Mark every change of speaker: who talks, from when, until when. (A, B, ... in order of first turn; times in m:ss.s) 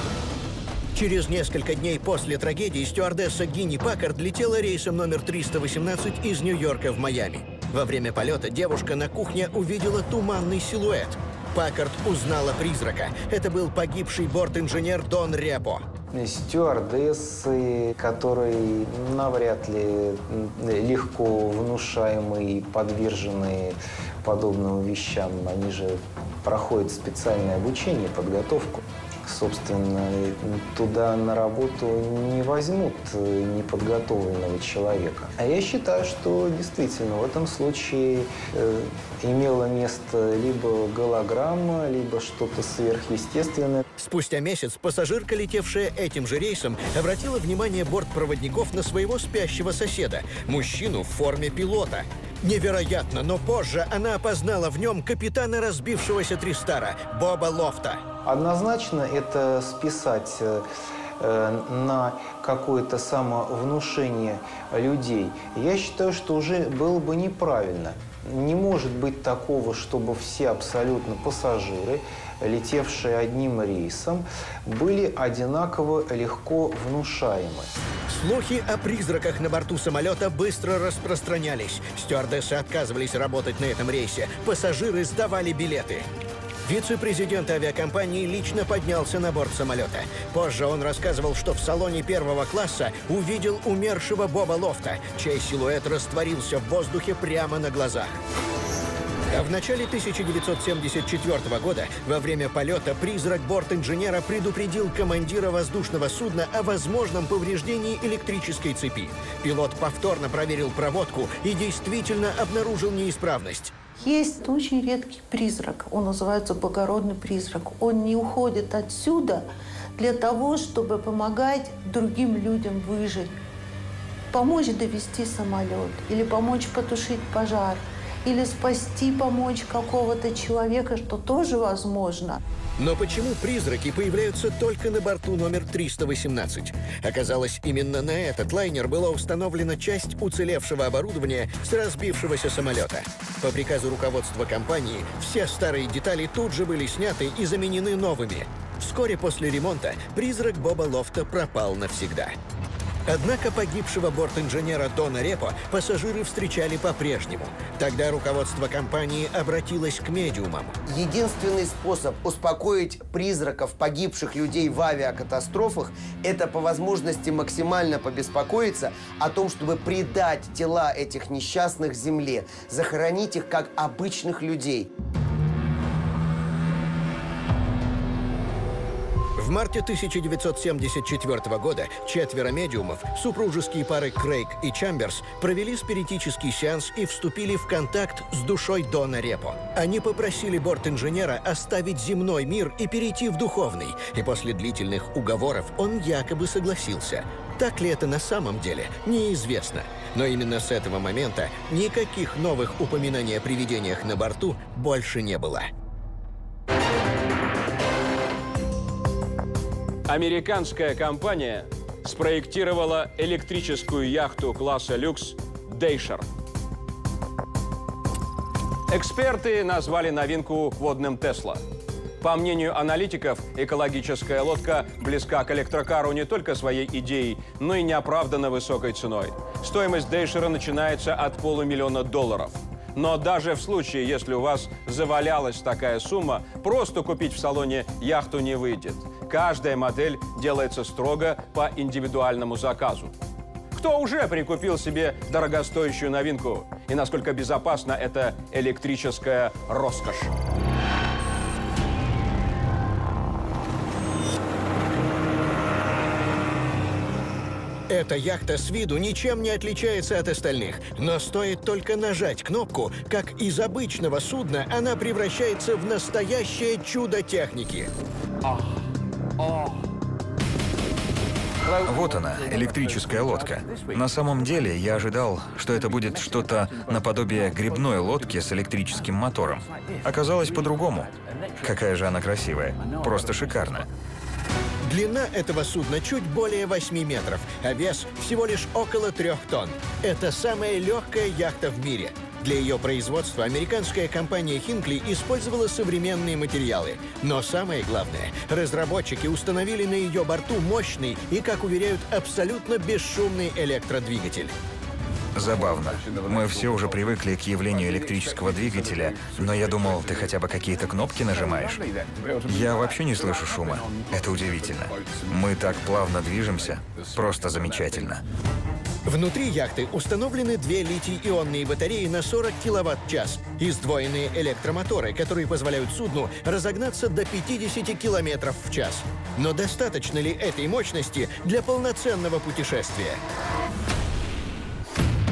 0:00.9-0:15.8 A
0:16.1-0:43.8 B
0:44.0-0:58.0 A
0:58.2-1:00.7 B
1:01.2-1:17.7 B
1:18.1-1:26.1 A
1:26.7-1:38.2 A
1:39.3-1:53.7 A
1:54.0-2:03.4 C
2:04.3-2:12.4 C
2:12.8-2:32.4 A
2:33.1-2:40.8 A
2:40.9-2:54.9 D
2:59.4-3:25.7 A
3:30.1-3:36.3 E
3:38.9-3:41.6 E
3:42.2-4:03.1 E
4:03.7-4:10.3 E
4:17.9-4:27.9 A
4:31.8-4:43.9 F
4:44.8-5:04.5 A
5:05.4-5:11.8 F
5:12.4-5:18.2 F
5:19.1-5:33.2 A